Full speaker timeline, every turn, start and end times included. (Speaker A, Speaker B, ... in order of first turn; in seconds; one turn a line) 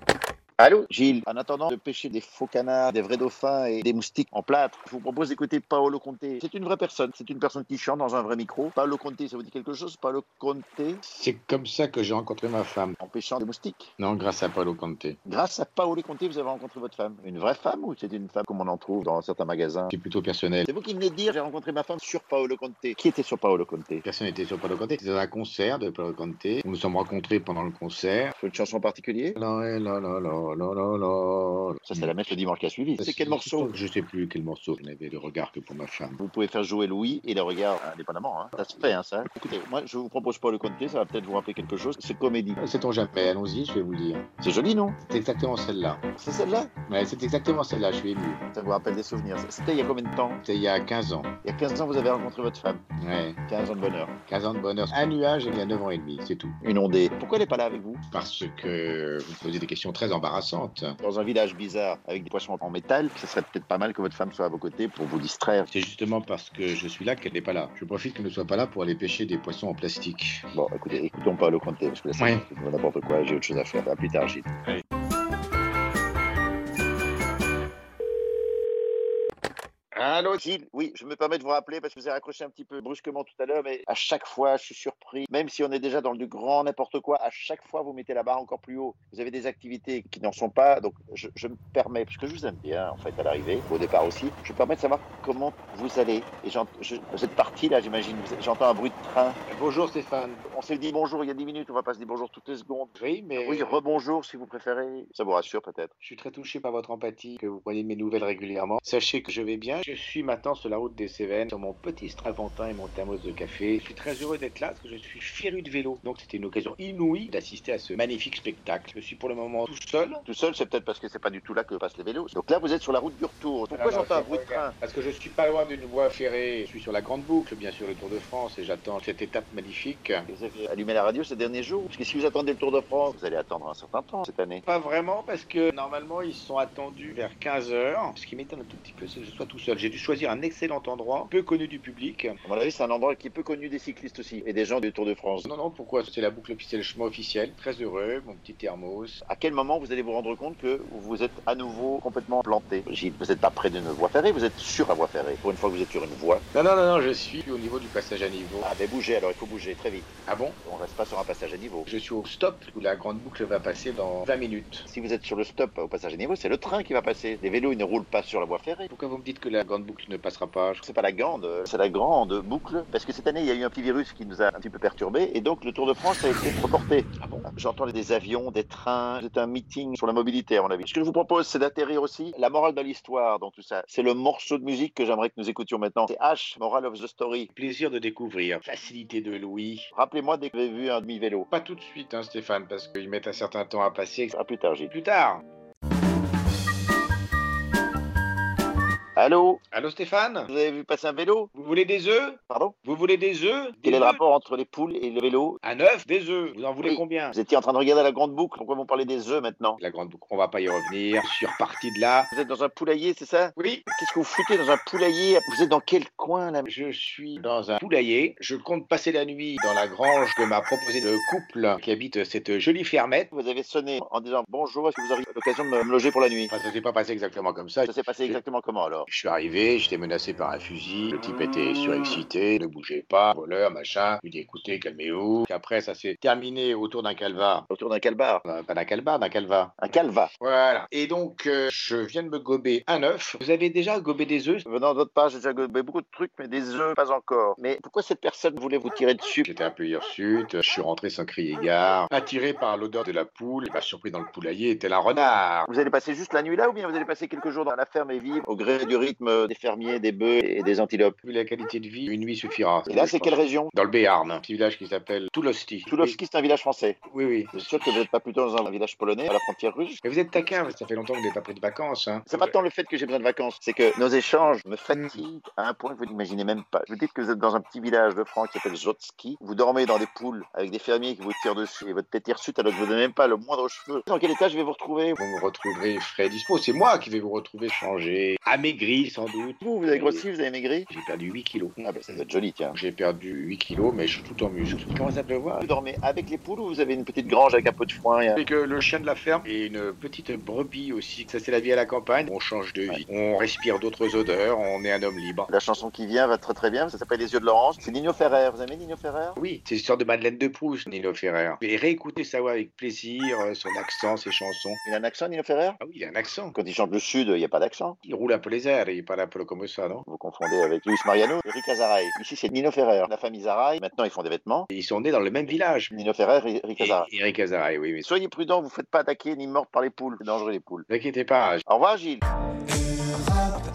Speaker A: 0.6-11.0
Speaker B: 11.1-13.0
Speaker A: 13.0-13.9
Speaker B: 14.0-15.2
Speaker A: 15.2-19.9
Speaker B: 19.9-20.7
Speaker A: 20.6-24.0
Speaker B: 24.0-28.3
Speaker A: 28.4-29.4
Speaker B: 29.4-32.3
Speaker A: 31.9-33.7
Speaker B: 33.0-36.2
Speaker A: 36.2-42.6
Speaker B: 38.6-38.8
Speaker B: 42.6-44.3
Speaker A: 44.4-45.0
Speaker B: 45.0-46.0
Speaker A: 46.1-46.7
Speaker B: 46.9-48.4
Speaker A: 48.5-50.4
Speaker B: 50.4-51.3
Speaker A: 51.4-52.8
Speaker B: 53.0-53.4
Speaker A: 53.5-54.1
Speaker B: 54.3-56.6
Speaker A: 56.6-58.0
Speaker B: 58.1-61.0
Speaker A: 61.0-65.7
Speaker B: 65.7-70.4
Speaker A: 70.5-74.5
Speaker B: 72.2-72.4
Speaker B: 79.9-80.4
Speaker A: 80.4-99.4
Speaker B: 99.5-100.4
Speaker A: 100.5-105.9
Speaker B: 103.0-103.7
Speaker B: 106.0-120.2
Speaker A: 120.2-124.7
Speaker B: 123.7-130.3
Speaker A: 130.3-134.6
Speaker B: 134.7-142.4
Speaker A: 142.4-145.5
Speaker B: 145.4-149.2
Speaker A: 149.2-156.4
Speaker B: 156.5-158.7
Speaker A: 158.6-160.1
Speaker B: 160.3-160.6
Speaker A: 160.6-161.9
Speaker B: 161.9-164.8
Speaker A: 164.9-168.9
Speaker B: 168.9-170.8
Speaker A: 170.8-187.5
Speaker B: 177.2-177.5
Speaker B: 187.5-189.9
Speaker A: 189.9-191.5
Speaker B: 191.5-194.3
Speaker A: 194.3-194.9
Speaker B: 194.9-195.4
Speaker A: 199.2-199.6
Speaker B: 199.7-200.5
Speaker A: 200.5-201.5
Speaker B: 201.5-204.2
Speaker A: 202.5-202.8
Speaker A: 203.8-205.6
Speaker B: 205.6-207.3
Speaker A: 206.8-209.8
Speaker B: 209.8-212.3
Speaker A: 212.3-216.7
Speaker B: 213.6-213.8
Speaker B: 216.7-223.3
Speaker A: 223.3-226.5
Speaker B: 226.5-228.4
Speaker A: 227.8-229.1
Speaker B: 229.1-237.7
Speaker A: 237.7-238.4
Speaker B: 238.4-239.8
Speaker A: 239.8-240.3
Speaker B: 240.4-244.7
Speaker A: 244.7-249.5
Speaker B: 249.4-255.7
Speaker A: 255.7-261.2
Speaker B: 261.2-266.2
Speaker A: 262.9-263.7
Speaker A: 265.9-267.0
Speaker B: 267.1-268.1
Speaker A: 267.5-270.6
Speaker B: 270.0-272.5
Speaker A: 272.3-285.2
Speaker B: 274.9-275.2
Speaker B: 285.2-290.2
Speaker A: 289.6-290.9
Speaker B: 290.9-292.2
Speaker A: 291.8-292.8
Speaker B: 292.7-295.6
Speaker A: 295.6-298.4
Speaker B: 298.4-305.5
Speaker A: 305.5-309.4
Speaker B: 309.4-314.8
Speaker A: 314.8-315.8
Speaker B: 315.8-316.5
Speaker A: 316.5-318.0
Speaker B: 318.0-320.0
Speaker A: 320.1-324.7
Speaker B: 324.7-325.9
Speaker A: 325.9-327.1
Speaker B: 326.8-328.0
Speaker A: 328.0-330.9
Speaker B: 330.9-331.6
Speaker A: 331.6-332.2